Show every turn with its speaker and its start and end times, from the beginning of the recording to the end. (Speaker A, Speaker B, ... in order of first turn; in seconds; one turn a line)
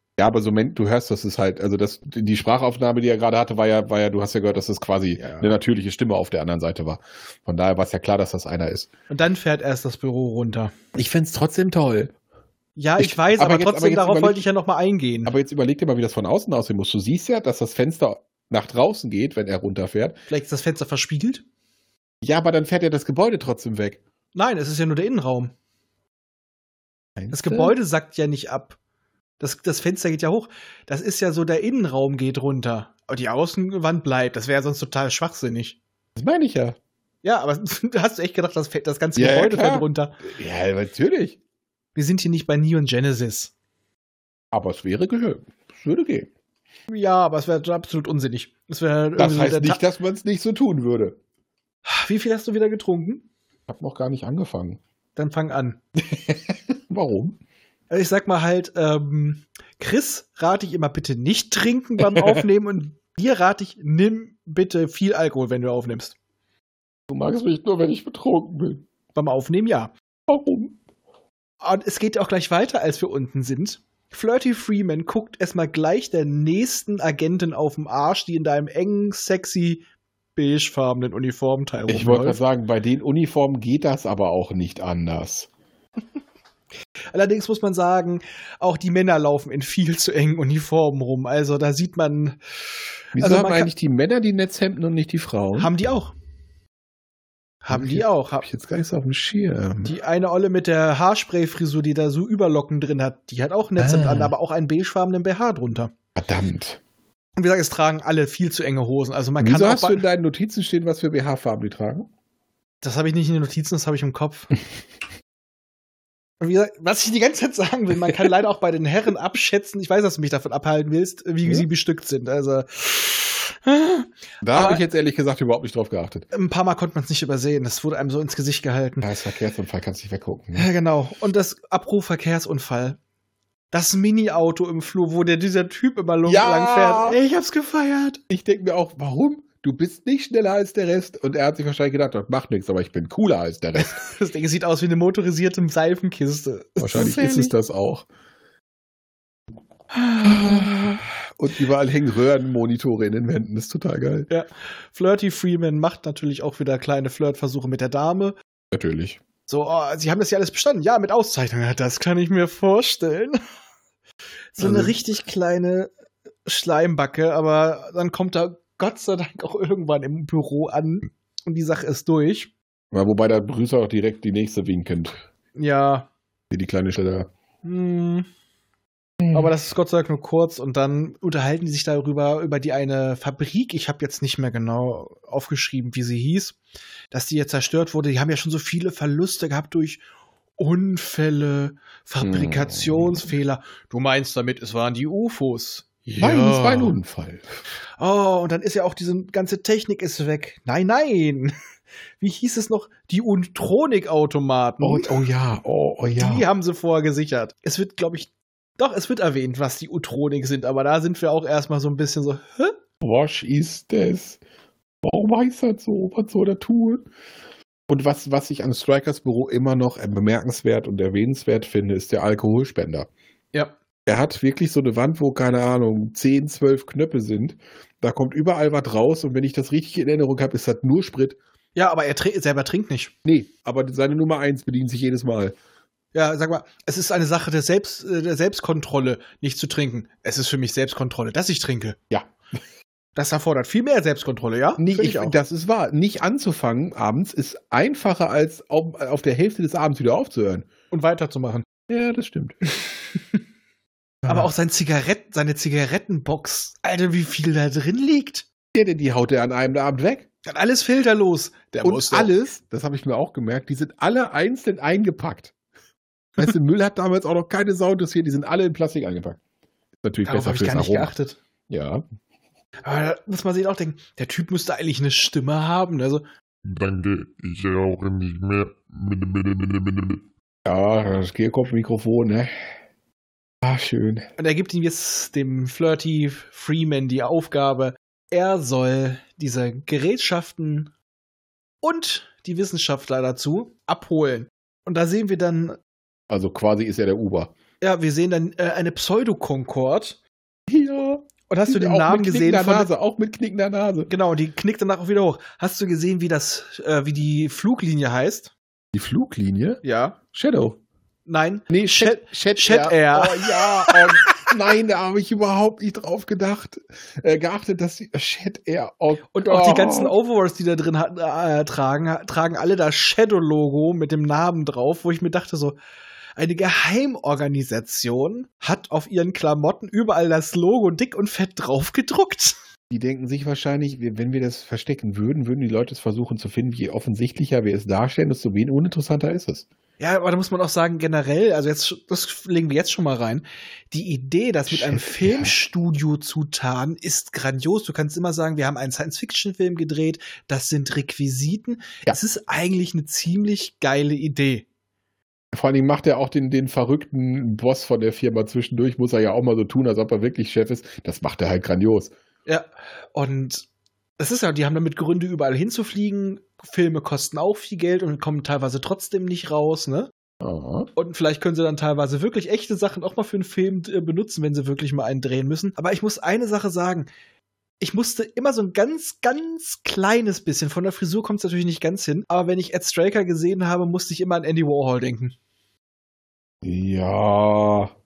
Speaker A: 0.2-8.9
Speaker B: 5.2-5.5
Speaker B: 9.1-10.7
Speaker A: 10.9-12.1
Speaker B: 12.8-15.3
Speaker A: 13.0-14.4
Speaker A: 15.3-20.2
Speaker B: 20.3-21.4
Speaker A: 22.2-24.0
Speaker B: 24.4-25.5
Speaker A: 27.2-27.8
Speaker B: 27.3-28.8
Speaker B: 29.4-35.8
Speaker A: 36.2-36.8
Speaker B: 37.2-40.2
Speaker A: 39.2-41.4
Speaker B: 42.0-43.5
Speaker A: 44.5-46.3
Speaker B: 46.9-49.8
Speaker A: 49.2-51.2
Speaker B: 51.9-53.2
Speaker A: 53.7-54.8
Speaker B: 55.2-55.8
Speaker A: 56.0-57.4
Speaker B: 57.9-66.2
Speaker A: 62.0-62.4
Speaker A: 67.1-68.9
Speaker B: 69.2-69.9
Speaker A: 70.3-70.8
Speaker B: 71.6-79.8
Speaker B: 80.4-82.4
Speaker A: 81.9-85.5
Speaker B: 87.1-92.4
Speaker A: 93.2-95.7
Speaker B: 93.2-93.7
Speaker B: 95.6-96.1
Speaker B: 97.6-98.5
Speaker A: 97.7-100.0
Speaker B: 99.8-105.9
Speaker A: 103.8-104.3
Speaker A: 106.2-106.8
Speaker B: 107.4-110.0
Speaker A: 109.4-112.1
Speaker B: 112.8-114.5
Speaker B: 116.4-124.8
Speaker A: 124.4-126.3
Speaker B: 126.3-129.1
Speaker A: 129.0-130.7
Speaker B: 130.6-133.0
Speaker B: 133.7-138.2
Speaker A: 136.3-137.2
Speaker A: 138.3-144.1
Speaker B: 143.8-147.5
Speaker A: 146.8-148.1
Speaker B: 149.9-151.0
Speaker A: 150.2-154.3
Speaker B: 154.3-158.4
Speaker A: 158.7-159.2
Speaker B: 159.5-163.4
Speaker B: 164.6-165.9
Speaker A: 164.6-165.0
Speaker B: 166.5-172.5
Speaker A: 172.9-175.2
Speaker B: 175.6-176.1
Speaker A: 176.5-177.3
Speaker B: 177.6-178.3
Speaker A: 179.2-179.5
Speaker B: 179.3-186.6
Speaker B: 187.1-190.0
Speaker B: 190.6-197.0
Speaker A: 192.2-193.3
Speaker A: 196.2-197.5
Speaker B: 198.0-201.5
Speaker B: 202.2-205.2
Speaker A: 204.8-206.5
Speaker B: 206.2-212.8
Speaker A: 213.0-214.4
Speaker A: 215.0-217.1
Speaker A: 217.9-223.1
Speaker A: 224.1-231.4
Speaker B: 231.8-233.1
Speaker A: 233.2-235.6
Speaker B: 236.1-242.0
Speaker B: 243.2-245.4
Speaker A: 244.8-250.7
Speaker B: 250.9-251.7
Speaker A: 251.9-252.6
Speaker B: 252.8-253.4
Speaker A: 254.2-254.5
Speaker B: 254.3-258.4
Speaker A: 258.7-260.3
Speaker B: 260.5-262.3
Speaker A: 261.8-265.5
Speaker A: 266.4-269.4
Speaker A: 270.0-271.1
Speaker B: 270.2-271.4
Speaker A: 271.7-272.0
Speaker B: 272.8-276.2
Speaker C: 276.6-280.2
Speaker A: 280.6-282.6
Speaker A: 283.6-284.3
Speaker B: 284.4-290.9
Speaker B: 291.8-295.8
Speaker A: 296.3-297.5
Speaker B: 297.8-300.2
Speaker A: 300.7-304.1
Speaker B: 301.5-302.9
Speaker B: 304.1-308.5
Speaker A: 308.9-309.8
Speaker B: 309.8-310.2
Speaker A: 310.3-310.8
Speaker B: 311.3-314.5
Speaker A: 311.7-320.1
Speaker B: 319.3-325.8
Speaker B: 326.4-332.6
Speaker A: 332.9-339.7
Speaker B: 340.0-354.7
Speaker A: 344.7-345.5
Speaker A: 355.5-362.1
Speaker B: 362.5-363.7
Speaker B: 364.2-370.1
Speaker A: 370.4-370.9
Speaker B: 371.0-377.1
Speaker B: 377.8-385.4
Speaker A: 386.6-387.9